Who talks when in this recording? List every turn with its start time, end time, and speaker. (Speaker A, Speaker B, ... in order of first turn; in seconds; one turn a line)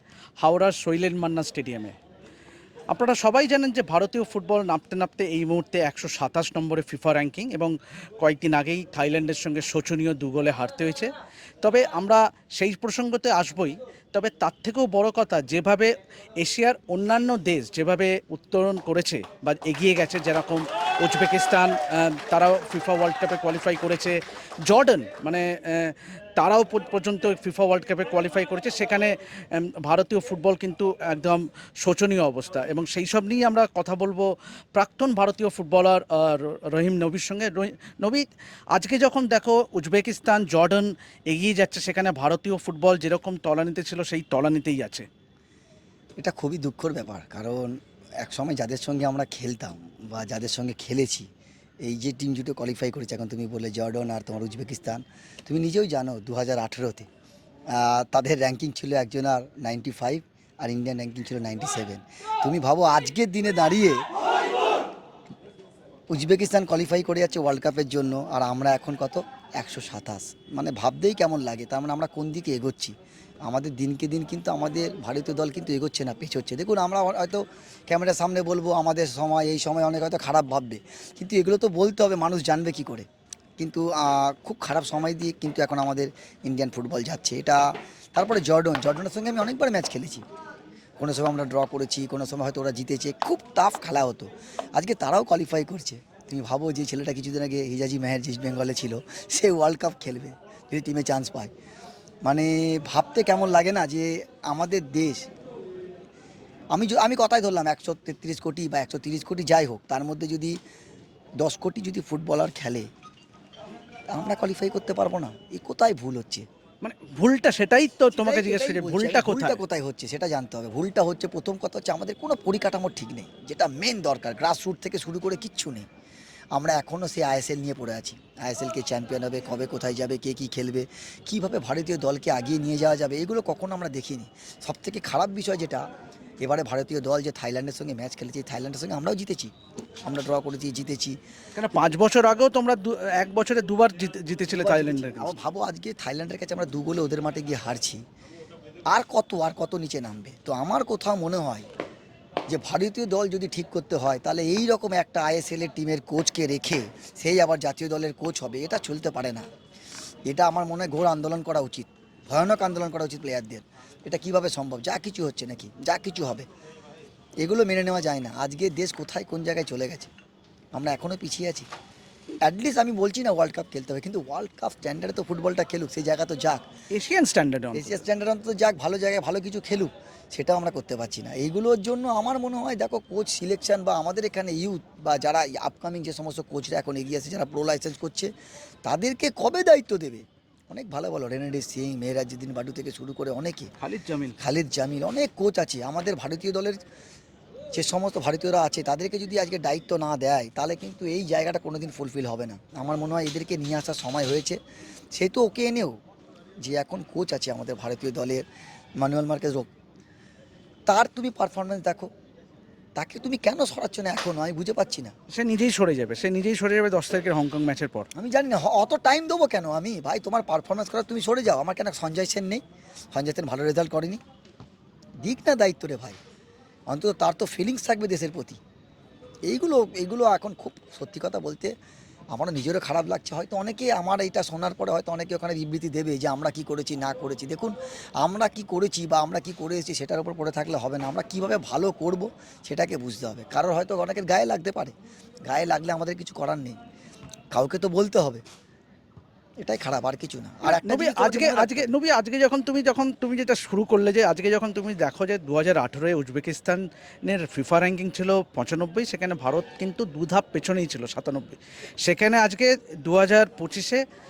Speaker A: 0.4-1.9
Speaker A: 2.9-11.1
Speaker A: 11.6-45.1
Speaker B: 46.2-51.3
Speaker B: 51.8-57.1
Speaker B: 57.7-64.0
Speaker B: 66.1-72.9
Speaker B: 73.5-83.1
Speaker B: 83.6-87.6
Speaker B: 88.1-90.2
Speaker B: 91.0-101.5
Speaker B: 102.2-105.2
Speaker B: 106.7-110.5
Speaker B: 111.4-112.9
Speaker B: 114.1-116.5
Speaker A: 116.8-119.6
Speaker B: 118.2-125.9
Speaker B: 126.5-135.8
Speaker B: 136.4-139.5
Speaker B: 140.1-141.2
Speaker A: 141.5-145.4
Speaker B: 144.5-148.0
Speaker B: 148.9-151.7
Speaker B: 152.5-159.5
Speaker B: 160.3-166.5
Speaker B: 167.4-170.1
Speaker B: 170.7-171.7
Speaker B: 172.4-176.6
Speaker A: 176.9-178.0
Speaker B: 177.7-188.3
Speaker B: 188.8-193.7
Speaker A: 193.8-194.4
Speaker B: 194.4-196.8
Speaker B: 197.7-204.6
Speaker B: 205.1-205.9
Speaker B: 206.6-208.4
Speaker B: 209.0-209.7
Speaker B: 210.9-212.1
Speaker B: 213.0-215.1
Speaker A: 215.3-218.1
Speaker B: 218.1-222.6
Speaker B: 223.1-224.2
Speaker B: 225.2-226.2
Speaker B: 226.9-228.6
Speaker B: 229.5-231.7
Speaker B: 232.3-244.9
Speaker B: 245.5-246.8
Speaker B: 247.5-248.4
Speaker B: 249.6-251.9
Speaker A: 250.6-264.0